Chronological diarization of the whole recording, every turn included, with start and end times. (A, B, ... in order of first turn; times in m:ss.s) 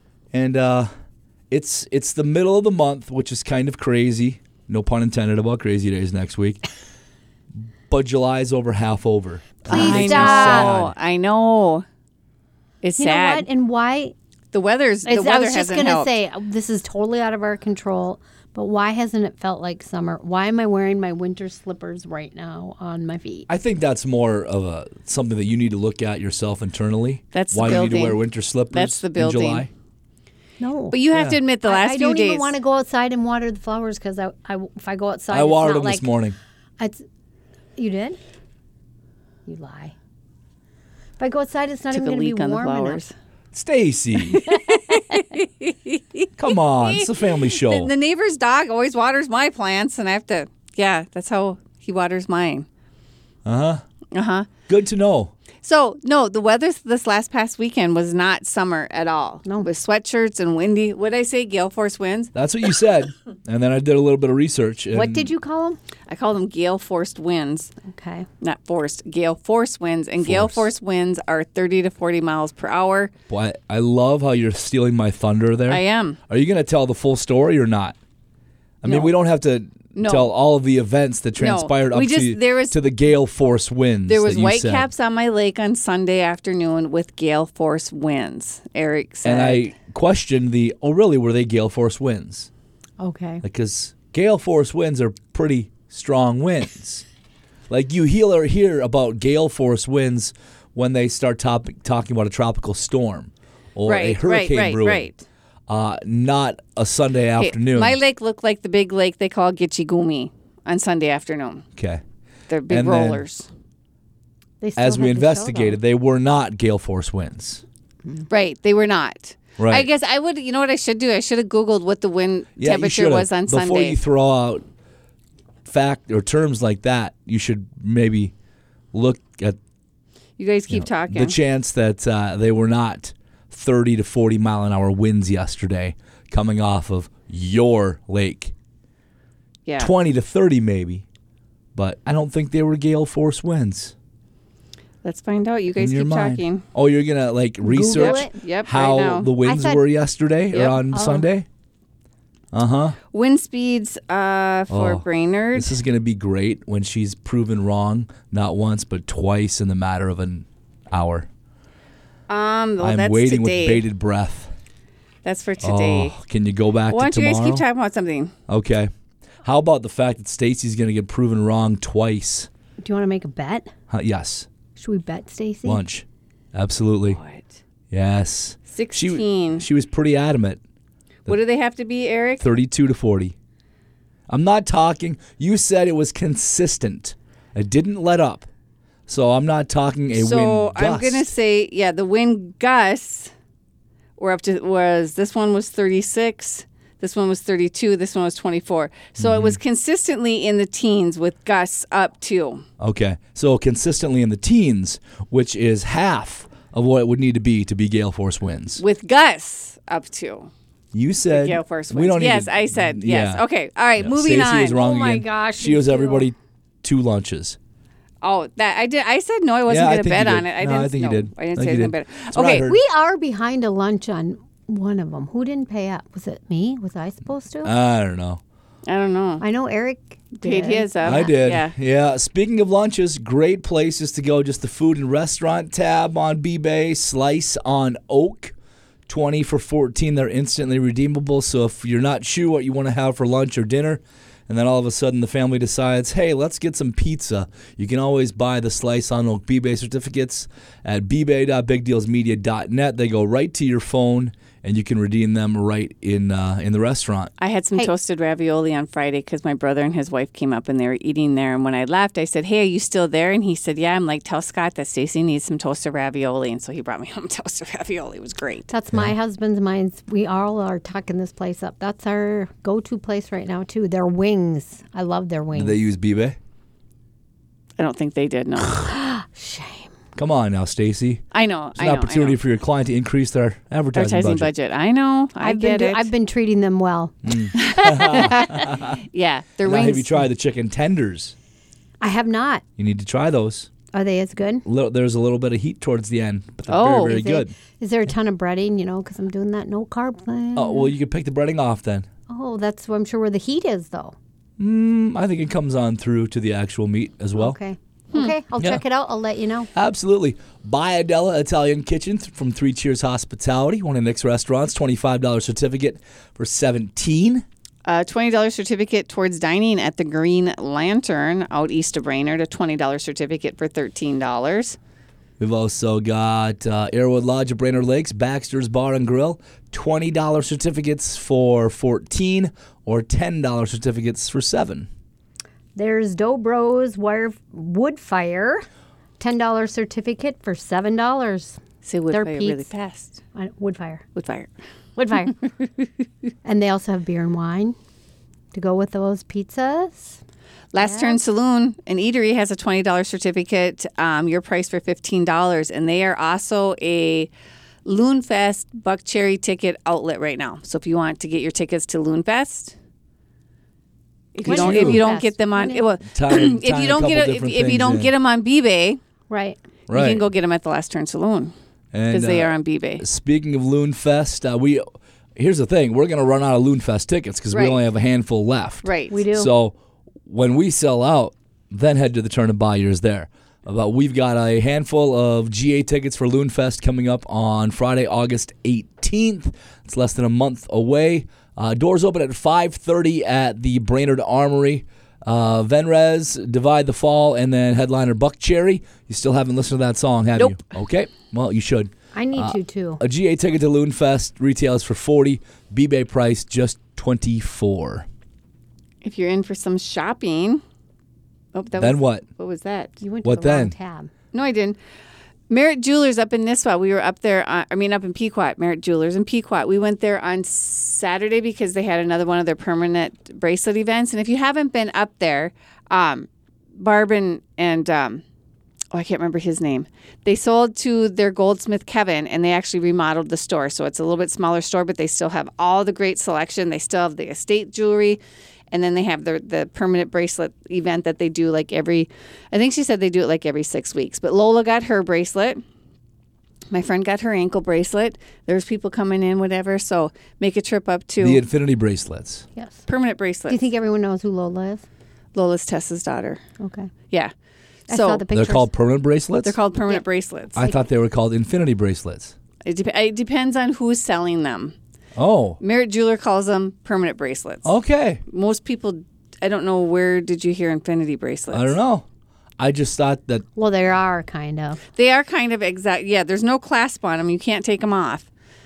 0:00.3-0:00.9 A
0:01.5-0:06.6 A
0:07.9-0:10.9 A
0:09.7-0:10.8 B
0:09.7-0:11.8 C
0:12.8-0:13.5 C
0:13.0-0:14.1 B
0:14.5-0:16.2 C
0:15.1-0:23.5 B
0:23.5-0:29.7 A
0:27.3-0:29.7 C
0:30.6-0:31.0 B
0:30.9-0:32.5 C
0:31.1-0:31.4 A
0:31.6-0:36.1 B
0:35.3-0:36.4 A
0:36.8-0:37.0 B
0:37.8-0:38.2 B
0:39.5-0:39.9 B
0:41.2-0:43.0 B
0:41.9-0:43.1 C
0:43.5-0:44.4 A
0:44.3-0:52.7 C
0:44.5-0:45.2 B
0:46.4-0:47.9 A
0:53.4-0:53.8 A
0:54.1-0:54.5 C
0:54.7-0:55.3 A
0:55.6-1:02.3 C
1:02.4-1:05.3 A
1:04.9-1:05.8 B
1:06.1-1:07.7 C
1:07.8-1:08.3 B
1:08.4-1:13.1 C
1:10.2-1:10.6 A
1:13.3-1:18.0 A
1:15.7-1:16.2 C
1:18.8-1:24.9 A
1:18.8-1:19.1 C
1:20.0-1:20.3 C
1:21.4-1:22.8 C
1:24.1-1:29.7 C
1:29.2-1:32.5 A
1:33.0-1:33.4 B
1:33.4-1:37.0 A
1:37.7-1:45.1 A
1:43.9-1:45.2 C
1:45.7-1:48.0 A
1:47.4-1:51.7 C
1:51.8-1:52.0 A
1:52.5-1:53.5 C
1:52.7-1:53.2 A
1:54.6-1:55.8 B
1:54.8-1:57.6 A
1:58.3-2:04.0 C
1:59.6-1:59.9 A
2:02.6-2:04.6 A
2:05.7-2:08.3 A
2:08.9-2:09.6 A
2:10.4-2:11.4 C
2:10.7-2:18.5 A
2:19.6-2:19.9 C
2:19.8-2:21.0 A
2:21.8-2:23.9 A
2:25.0-2:26.7 C
2:25.8-2:31.5 A
2:27.6-2:28.4 B
2:27.9-2:29.3 C
2:29.4-2:29.8 B
2:30.5-2:30.8 C
2:30.6-2:31.3 B
2:32.5-2:33.0 A
2:33.1-2:35.8 C
2:34.7-2:35.0 A
2:35.6-2:41.3 A
2:42.3-2:43.8 C
2:42.8-2:44.5 A
2:45.2-2:46.2 C
2:45.6-2:47.6 A
2:46.9-2:48.3 C
2:48.5-2:48.9 A
2:49.4-2:52.5 A
2:52.8-2:53.7 B
2:53.9-2:54.5 A
2:54.8-2:55.8 B
2:55.6-2:57.2 A
2:57.1-2:57.6 C
2:57.9-3:00.6 A
2:58.7-2:59.7 C
3:01.3-3:02.4 C
3:02.4-3:03.4 A
3:04.3-3:08.5 A
3:09.1-3:11.3 A
3:10.1-3:13.3 C
3:14.2-3:22.6 C
3:19.2-3:19.6 A
3:22.8-3:28.8 A
3:28.8-3:30.5 C
3:30.9-3:33.4 A
3:31.3-3:34.8 C
3:34.0-3:37.6 A
3:34.7-3:36.3 B
3:38.2-3:42.6 C
3:39.7-3:42.8 A
3:42.6-3:47.7 B
3:47.6-3:48.4 A
3:48.9-3:49.4 C
3:49.4-3:51.3 B
3:50.4-3:51.7 C
3:51.0-3:58.5 A
3:59.1-4:17.3 A
4:17.4-4:28.7 C
4:28.7-4:35.8 B
4:35.6-4:36.4 A
4:37.8-4:38.9 C
4:38.6-4:39.9 B
4:40.2-4:41.2 A
4:41.3-4:42.4 C
4:41.8-4:44.5 A
4:43.9-4:46.1 C
4:45.4-4:48.7 B
4:47.2-4:49.0 A
4:47.6-4:50.1 C
4:49.6-4:51.3 A
4:52.0-4:52.6 B
4:52.8-4:53.7 A
4:53.9-4:54.6 B
4:54.6-4:57.5 A
4:56.7-4:57.3 C
4:57.1-5:00.9 B
5:00.6-5:02.1 A
5:02.3-5:04.2 B
5:04.6-5:07.6 A
5:07.4-5:09.7 B
5:09.7-5:17.4 A
5:17.8-5:24.8 C
5:25.4-5:34.9 A
5:35.8-5:38.7 B
5:39.2-5:41.6 B
5:41.8-5:43.2 C
5:42.1-5:42.7 B
5:43.4-5:44.0 B
5:44.2-5:44.5 C
5:45.0-5:45.4 B
5:46.4-5:47.8 B
5:48.5-5:50.2 B
5:50.7-5:57.3 C
5:50.8-5:51.2 B
5:57.8-6:02.8 C
6:04.3-6:09.0 C
6:04.4-6:05.0 A
6:04.4-6:05.8 B
6:06.1-6:08.1 A
6:09.3-6:09.6 B
6:09.9-6:10.2 A
6:09.9-6:11.5 C
6:11.9-6:14.8 A
6:12.1-6:13.0 C
6:15.4-6:48.1 A
6:17.5-6:17.8 C
6:18.8-6:19.2 C
6:19.1-6:19.5 B
6:42.1-6:43.0 B
6:49.0-6:50.6 C
6:51.5-6:53.0 C
6:51.8-6:52.2 A
6:53.0-6:54.1 B
6:53.2-6:53.7 A
6:54.3-6:54.8 C
6:55.5-7:08.2 C
7:08.9-7:18.2 C
7:18.7-7:25.6 C
7:26.7-7:31.4 C
7:31.2-7:32.5 A
7:32.6-7:32.8 B
7:32.9-7:33.6 C
7:33.5-7:34.8 B
7:35.3-7:36.4 C
7:36.6-7:36.9 B
7:37.9-7:38.2 C
7:37.9-7:38.7 B
7:38.3-7:39.6 A
7:39.4-7:40.8 C
7:40.6-7:42.4 A
7:42.6-7:44.8 C
7:45.2-7:45.6 A
7:45.6-7:47.7 C
7:47.6-7:48.2 A
7:48.3-7:51.8 C
7:51.5-7:52.0 A
7:52.6-7:53.4 A
7:53.6-7:54.8 B
7:55.0-7:58.3 C